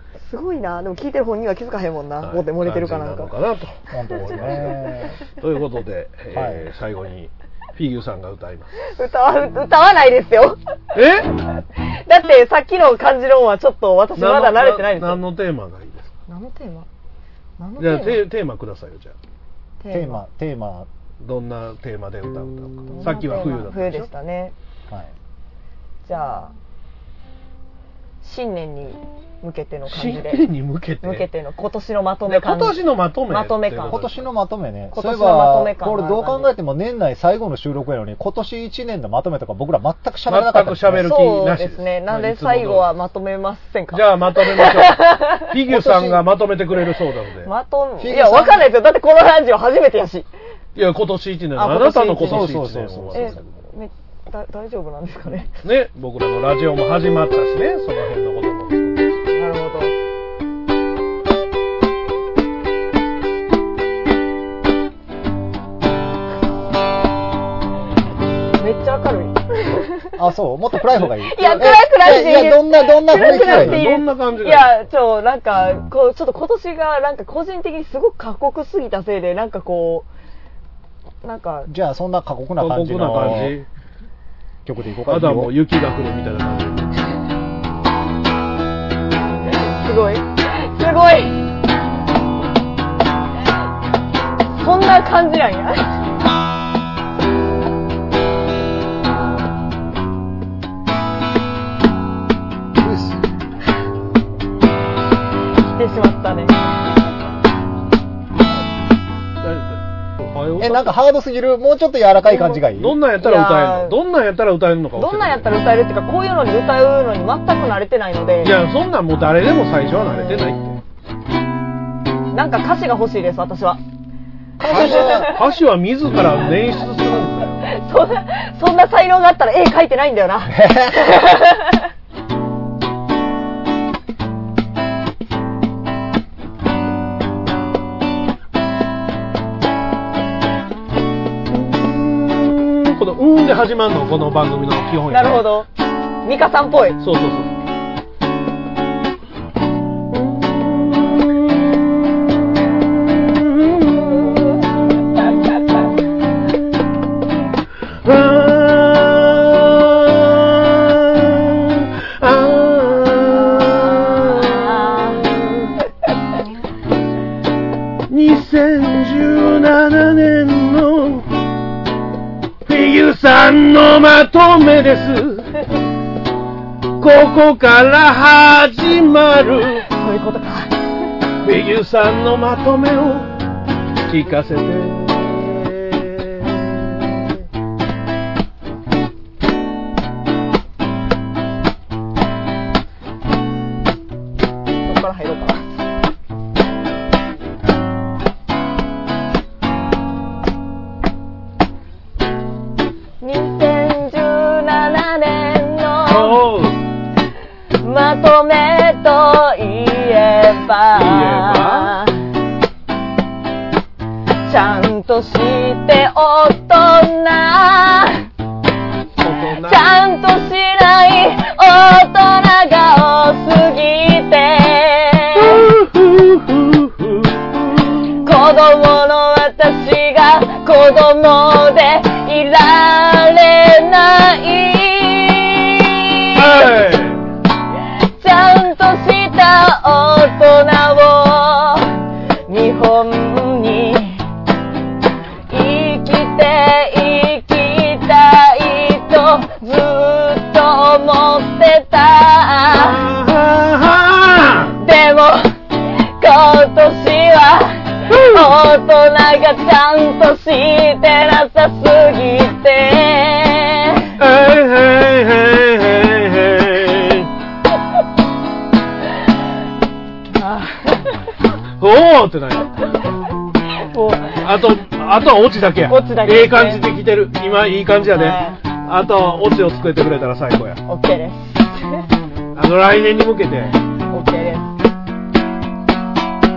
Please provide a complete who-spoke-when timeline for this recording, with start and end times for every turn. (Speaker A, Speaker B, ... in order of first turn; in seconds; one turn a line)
Speaker A: 0.2-3.3
Speaker B: 2.2-8.7
Speaker C: 3.9-5.2
Speaker C: 6.3-6.7
Speaker A: 8.9-10.6
Speaker B: 10.9-11.3
Speaker A: 11.8-15.2
Speaker B: 14.2-16.1
Speaker A: 16.3-16.9
Speaker A: 17.6-18.2
Speaker B: 17.8-19.1
Speaker A: 19.8-20.2
Speaker C: 19.9-20.9
Speaker B: 21.2-24.1
Speaker A: 22.9-24.5
Speaker A: 26.0-26.5
Speaker A: 28.2-30.4
Speaker B: 29.9-31.3
Speaker A: 31.0-34.0
Speaker B: 32.3-34.2
Speaker C: 33.8-41.1
Speaker A: 34.9-36.5
Speaker B: 40.3-42.9
Speaker A: 41.0-45.5
Speaker B: 43.9-47.5
Speaker C: 45.7-46.2
Speaker A: 47.4-50.3
Speaker C: 48.0-48.7
Speaker B: 50.7-53.5
Speaker A: 51.5-52.6
Speaker C: 52.2-53.4
Speaker A: 53.1-55.5
Speaker B: 55.6-59.1
Speaker A: 59.3-59.9
Speaker A: 68.6-70.2
Speaker C: 70.2-73.8
Speaker A: 71.0-80.1
Speaker B: 73.1-74.8
Speaker A: 81.2-81.7
Speaker C: 81.7-83.6
Speaker B: 82.6-83.7
Speaker C: 84.6-85.5
Speaker B: 85.1-87.0
Speaker A: 89.4-91.4
Speaker A: 94.5-95.9
Speaker C: 102.8-103.2
Speaker A: 105.6-106.6
Speaker B: 109.4-111.0
Speaker C: 110.6-113.0
Speaker B: 112.5-115.5
Speaker A: 113.2-114.0
Speaker A: 115.0-118.5
Speaker B: 118.4-120.8
Speaker A: 122.3-123.8
Speaker C: 124.6-125.3
Speaker A: 124.6-125.5
Speaker B: 124.7-127.6
Speaker A: 127.7-131.8
Speaker C: 130.4-131.1
Speaker B: 141.5-145.5
Speaker A: 145.1-145.7
Speaker A: 146.2-147.0
Speaker B: 147.0-147.5
Speaker B: 150.1-151.6
Speaker B: 153.1-154.6
Speaker B: 158.0-165.7
Speaker A: 163.6-165.2
Speaker B: 168.1-171.3
Speaker B: 172.7-175.6
Speaker B: 177.0-179.8
Speaker A: 179.8-180.8
Speaker B: 181.4-183.3
Speaker B: 184.1-187.3
Speaker A: 194.8-195.8
Speaker A: 203.2-206.4
Speaker B: 206.1-206.8
Speaker A: 207.8-212.2
Speaker B: 210.9-211.9
Speaker A: 214.4-218.2
Speaker B: 219.2-219.8
Speaker A: 219.6-225.7
Speaker B: 225.4-228.2
Speaker A: 228.2-236.7
Speaker B: 236.3-237.2
Speaker A: 238.2-241.9
Speaker A: 242.5-244.2
Speaker A: 245.5-253.0
Speaker B: 252.7-254.7
Speaker A: 254.8-255.6
Speaker A: 256.1-264.1
Speaker B: 258.1-258.4
Speaker B: 264.2-267.3
Speaker A: 270.3-271.2
Speaker B: 271.8-272.8
Speaker A: 273.8-274.4
Speaker B: 274.3-280.8
Speaker A: 275.9-276.9
Speaker A: 278.1-278.6
Speaker A: 280.9-282.1
Speaker B: 282.5-283.8
Speaker A: 284.1-284.8